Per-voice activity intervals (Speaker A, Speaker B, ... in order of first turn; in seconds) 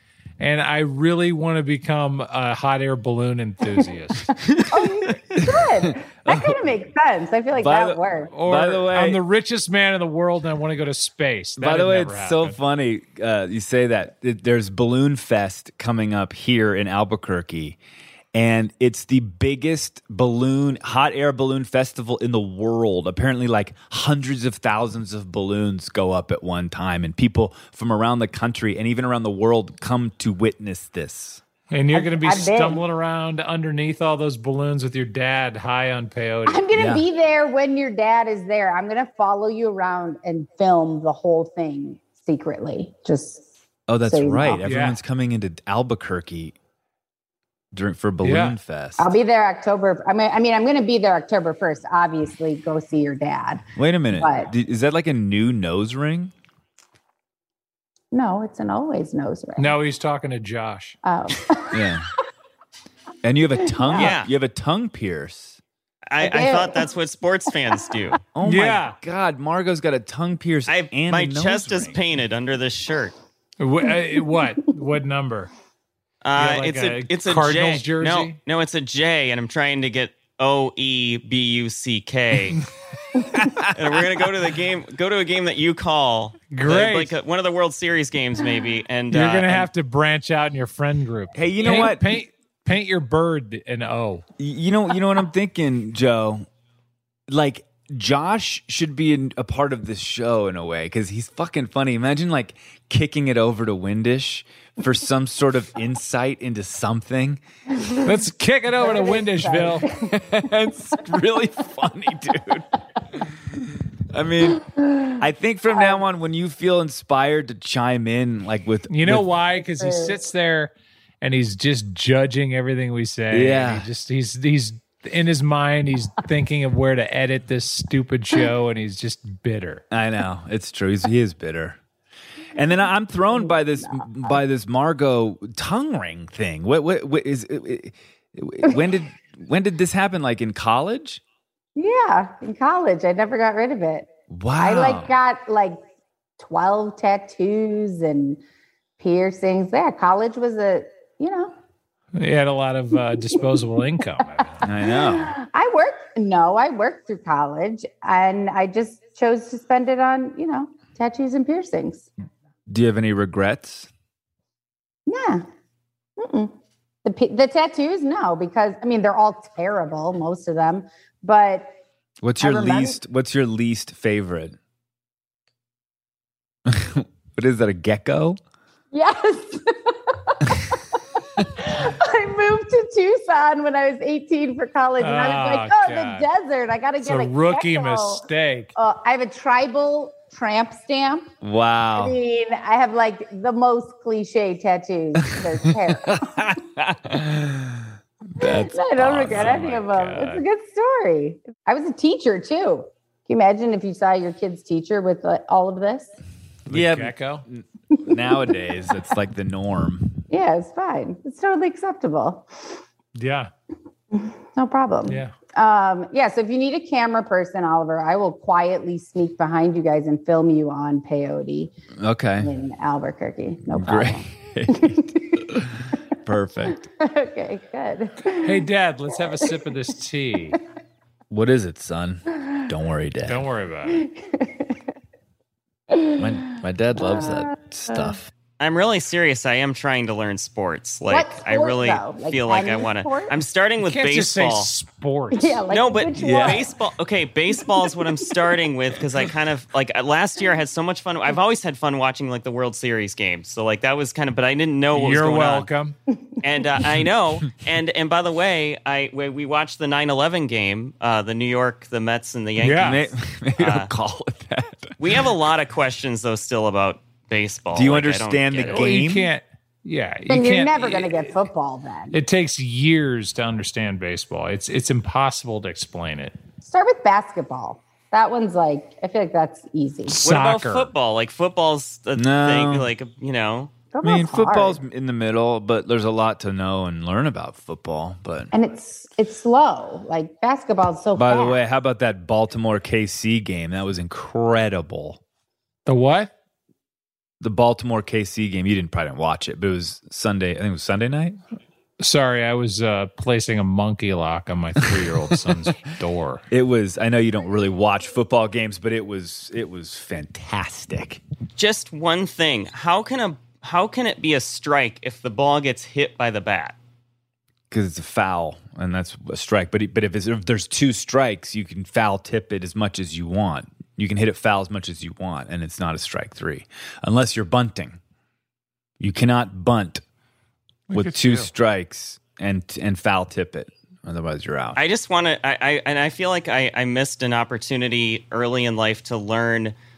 Speaker A: 0.4-4.3, 8.3-12.6, 31.7-36.7, 44.6-45.0, 48.2-48.6, 59.6-61.0, 68.4-68.9, 73.6-75.5, 76.3-78.4, 86.5-87.2, 89.1-94.2, 108.0-109.8, 118.9-129.8, 152.2-154.6, 185.0-186.3, 187.0-188.7, 199.2-200.4, 206.7-207.4, 213.2-213.5, 215.1-215.3, 228.4-230.6, 233.3-234.1, 243.8-245.6, 254.9-255.9, 262.6-263.1, 268.7-271.4, 272.1-276.3, 280.1-280.9, 295.9-296.3, 302.0-306.4, 330.9-331.5
Speaker B: 4.5-4.9, 63.9-64.3, 66.1-68.2, 70.7-73.1, 76.2-82.6, 83.7-89.7, 238.6-244.7, 245.7-255.7, 256.4-263.0, 263.6-263.9, 265.0-268.8, 280.2-283.7, 311.6-316.8, 334.7-339.8
Speaker C: 4.7-8.3, 31.9-32.9, 36.5-43.5, 44.0-44.6, 49.0-54.5, 58.1-59.7, 61.0-61.9, 63.6-64.2, 66.2-66.9, 67.7-67.9, 73.9-74.5, 108.8-110.1, 119.7-120.2, 133.3-134.4, 141.7-145.8, 146.4-148.4, 149.0-151.5, 154.4-162.1, 165.1-165.4, 166.2-166.5, 167.0-171.8, 172.4-173.0, 178.9-180.7, 181.6-188.2, 188.8-191.3, 191.9-196.3, 198.4-206.1, 207.9-208.4, 210.3-212.8, 214.1-221.7, 222.4-225.4, 226.7-228.6, 233.9-234.8, 235.9-236.2, 237.1-237.3, 241.1-243.3, 245.3-246.8, 247.6-248.1, 270.3-272.2, 276.6-280.2, 283.9-284.8, 288.5-291.6
Speaker D: 5.4-6.6, 7.5-9.2, 11.6-17.8, 18.3-31.4, 36.7-37.0, 43.9-46.5, 47.7-49.1, 53.8-56.3, 61.7-62.1, 63.2-65.6, 68.3-72.0, 83.3-83.7, 91.3-92.1, 94.4-96.5, 97.3-107.4, 110.0-113.3, 114.1-119.2, 123.3-123.9, 129.9-131.8, 132.5-141.2, 144.3-145.1, 154.6-155.3, 162.7-163.9, 172.2-174.6, 176.7-178.4, 191.4-192.2, 196.1-199.6, 206.7-210.2, 222.0-222.5, 223.7-224.9, 226.2-226.8, 231.3-233.4, 236.2-238.3, 246.2-246.6, 262.8-264.9, 267.7-269.3, 282.1-282.9, 284.0-288.5, 291.1-295.2, 297.4-301.4, 306.5-311.2, 317.7-328.0, 329.0-330.0, 330.9-334.8